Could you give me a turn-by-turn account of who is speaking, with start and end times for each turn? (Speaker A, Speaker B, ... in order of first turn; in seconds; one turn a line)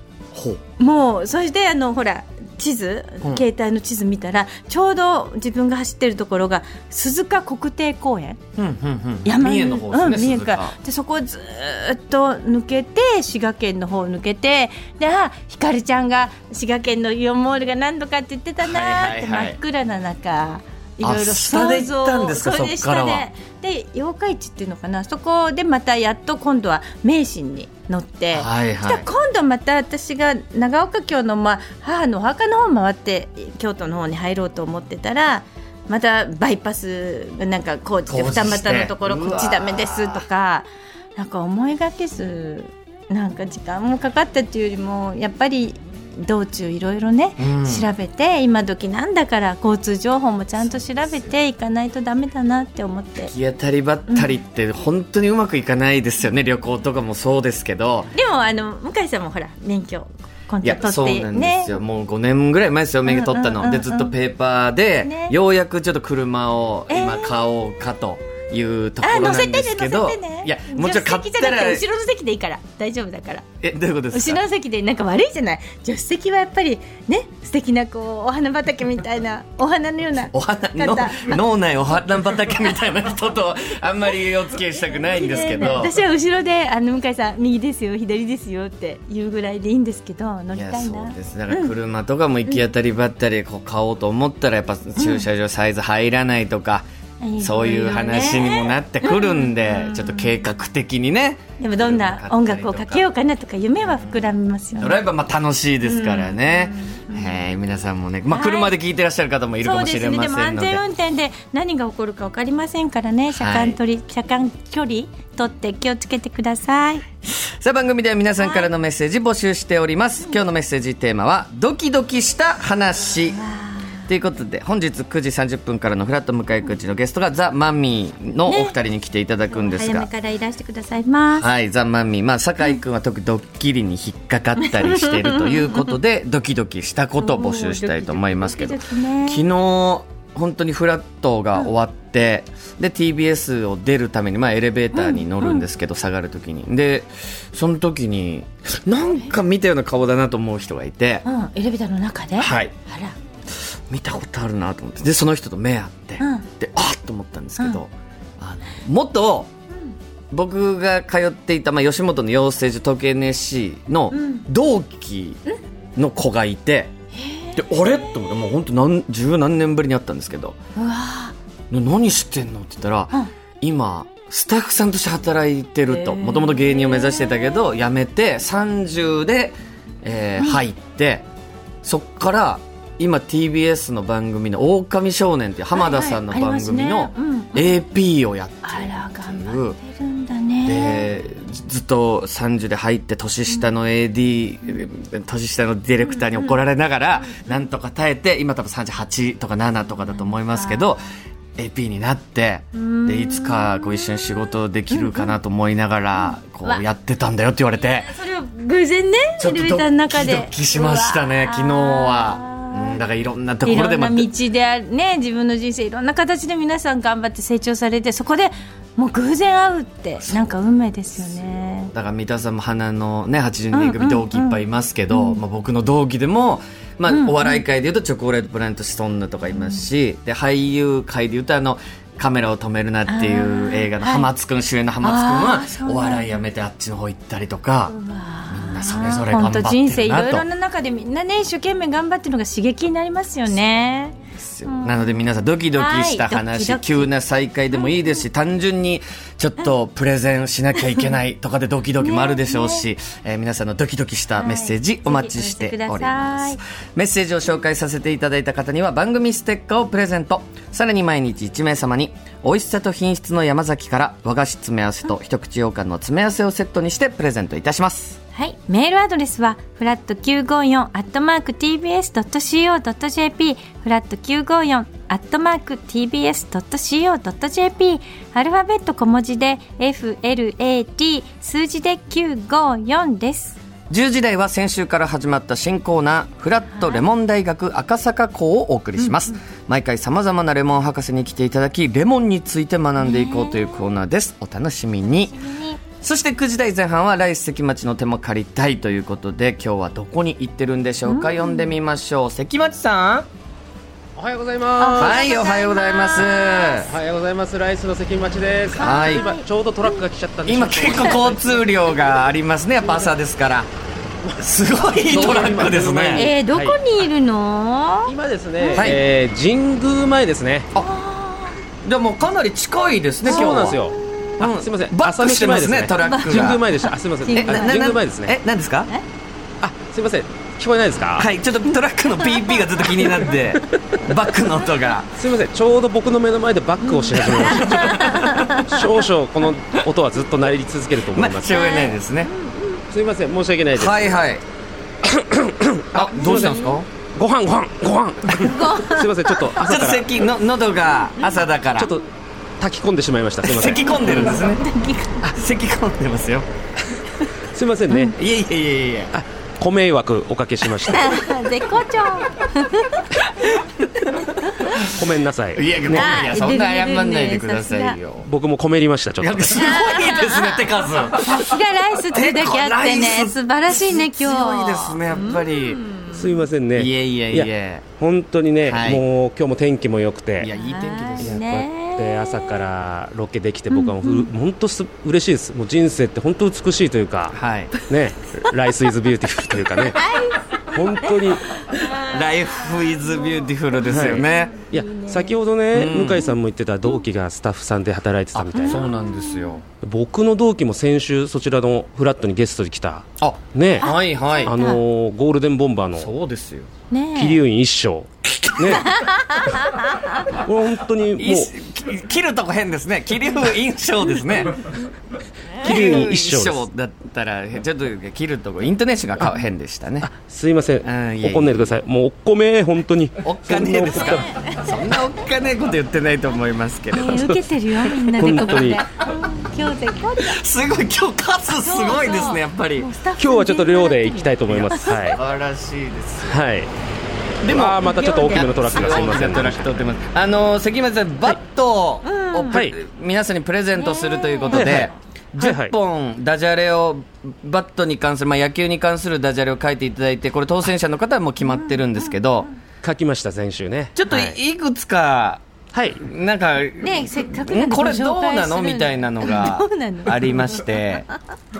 Speaker A: 0.3-0.6
Speaker B: 0.8-8.4
Speaker A: 8.6-10.7
Speaker B: 9.2-53.3
Speaker A: 18.6-19.6
Speaker A: 21.0-23.3
Speaker A: 28.3-29.1
Speaker A: 38.1-40.2
Speaker A: 47.4-47.8
Speaker A: 53.2-58.1
Speaker B: 54.1-54.4
Speaker B: 58.1-61.8
Speaker A: 60.6-71.8
Speaker B: 63.0-64.1
Speaker B: 65.0-65.3
Speaker B: 66.9-67.3
Speaker B: 69.0-73.5
Speaker A: 73.6-74.4
Speaker B: 74.1-81.4
Speaker A: 80.3-85.9
Speaker B: 85.1-91.7
Speaker A: 90.5-96.8
Speaker B: 95.0-95.2
Speaker B: 97.2-100.4
Speaker A: 97.4-103.0
Speaker B: 101.6-105.0
Speaker A: 103.9-104.2
Speaker A: 104.8-110.8
Speaker B: 105.8-107.4
Speaker B: 108.3-108.7
Speaker B: 109.6-117.0
Speaker A: 113.3-113.8
Speaker A: 117.2-123.4
Speaker B: 118.4-118.7
Speaker B: 123.4-123.9
Speaker A: 124.1-130.1
Speaker B: 128.4-128.7
Speaker B: 129.5-131.4
Speaker A: 131.3-151.2
Speaker B: 134.9-135.9
Speaker B: 137.2-139.4
Speaker B: 144.9-145.6
Speaker B: 151.2-153.1
Speaker A: 152.4-152.7
Speaker A: 153.9-159.5
Speaker B: 156.2-156.5
Speaker A: 160.3-165.4
Speaker B: 164.1-164.4
Speaker A: 165.9-166.9
Speaker B: 167.1-168.2
Speaker A: 167.5-170.6
Speaker B: 170.8-171.3
Speaker A: 171.7-181.2
Speaker B: 175.9-177.6
Speaker A: 181.8-189.8
Speaker B: 185.7-187.8
Speaker B: 188.6-191.1
Speaker A: 190.7-201.0
Speaker B: 196.0-196.6
Speaker B: 197.2-197.5
Speaker B: 200.5-200.9
Speaker A: 201.6-208.1
Speaker B: 202.7-205.3
Speaker B: 206.2-206.8
Speaker B: 207.8-213.0
Speaker A: 209.4-214.3
Speaker B: 213.6-221.9
Speaker A: 220.2-220.5
Speaker A: 221.6-237.9
Speaker B: 223.7-225.4
Speaker B: 227.1-227.6
Speaker B: 233.1-234.3
Speaker B: 235.0-236.3
Speaker B: 237.9-245.2
Speaker A: 238.5-240.4
Speaker A: 244.4-268.2
Speaker B: 245.7-247.1
Speaker B: 252.0-252.8
Speaker B: 254.4-256.6
Speaker B: 268.3-283.6
Speaker A: 283.9-295.3
Speaker B: 286.7-287.0
Speaker B: 289.0-289.3
Speaker B: 293.0-293.9
Speaker B: 295.3-295.8
Speaker A: 296.0-303.3
Speaker B: 301.0-301.8
Speaker C: 304.1-305.3
Speaker B: 304.8-306.9
Speaker A: 305.0-306.9
Speaker C: 306.2-311.7
Speaker B: 308.7-310.0
Speaker A: 308.8-309.3
Speaker A: 310.4-313.7
Speaker C: 314.3-316.8
Speaker A: 314.4-316.3
Speaker B: 316.1-318.9
Speaker C: 318.1-320.7
Speaker A: 318.7-319.0
Speaker B: 320.7-321.6
Speaker A: 321.8-323.8
Speaker C: 323.2-328.4
Speaker B: 323.3-323.7
Speaker A: 324.4-326.6
Speaker B: 326.0-327.9
Speaker A: 327.3-328.9
Speaker C: 329.6-331.3
Speaker A: 331.2-335.1
Speaker B: 332.2-332.6
Speaker C: 332.9-334.1
Speaker C: 335.1-341.5
Speaker B: 336.8-338.7
Speaker A: 341.1-342.3
Speaker B: 341.5-342.8
Speaker C: 342.9-344.1
Speaker A: 343.7-344.4
Speaker C: 345.0-350.1
Speaker A: 345.9-346.9
Speaker B: 346.2-346.8
Speaker B: 348.4-349.5
Speaker A: 349.4-351.9
Speaker B: 351.1-352.0
Speaker C: 351.8-352.0
Speaker C: 352.6-354.4
Speaker A: 353.4-354.6
Speaker B: 353.8-355.3
Speaker A: 355.2-356.5
Speaker C: 357.5-358.2
Speaker A: 358.1-359.1
Speaker C: 359.1-361.1
Speaker B: 360.8-363.2
Speaker B: 364.4-364.8
Speaker C: 364.8-366.4
Speaker A: 365.5-368.3
Speaker B: 365.9-368.0
Speaker C: 368.2-369.8
Speaker A: 369.2-371.5
Speaker B: 369.6-370.6
Speaker B: 371.1-376.4
Speaker A: 372.1-375.8
Speaker C: 376.1-380.5
Speaker A: 376.7-377.9
Speaker A: 378.6-379.0
Speaker A: 380.4-381.4
Speaker B: 380.5-382.7
Speaker C: 381.2-390.0
Speaker B: 383.7-384.3
Speaker A: 387.3-387.7
Speaker B: 389.9-395.4
Speaker C: 390.6-391.5
Speaker A: 391.9-394.5
Speaker C: 393.8-398.9
Speaker A: 395.7-396.2
Speaker A: 398.4-399.6
Speaker B: 398.5-399.6
Speaker C: 399.8-403.9
Speaker A: 403.2-404.5
Speaker B: 403.8-404.8
Speaker C: 404.4-406.1
Speaker A: 405.9-406.7
Speaker B: 406.9-407.4
Speaker C: 407.1-409.0
Speaker B: 408.8-410.2
Speaker C: 410.3-411.5
Speaker A: 411.2-414.7
Speaker C: 415.6-416.7
Speaker A: 415.6-420.1
Speaker C: 420.0-424.3
Speaker A: 420.8-421.7
Speaker A: 423.2-427.3
Speaker B: 423.9-424.7
Speaker B: 426.9-430.4
Speaker C: 427.1-427.4
Speaker C: 428.0-428.8
Speaker A: 428.2-428.8
Speaker A: 430.2-432.9
Speaker B: 431.6-435.2
Speaker C: 433.2-435.2
Speaker A: 434.5-436.4
Speaker C: 436.2-436.7
Speaker C: 437.4-439.9
Speaker A: 437.4-452.5
Speaker B: 437.8-438.5
Speaker B: 442.0-442.6
Speaker C: 442.5-442.8
Speaker B: 443.8-444.9
Speaker C: 444.5-445.7
Speaker B: 451.4-451.8
Speaker C: 452.8-454.4
Speaker A: 453.9-455.4
Speaker C: 455.7-456.0
Speaker A: 456.0-461.1
Speaker B: 456.8-460.8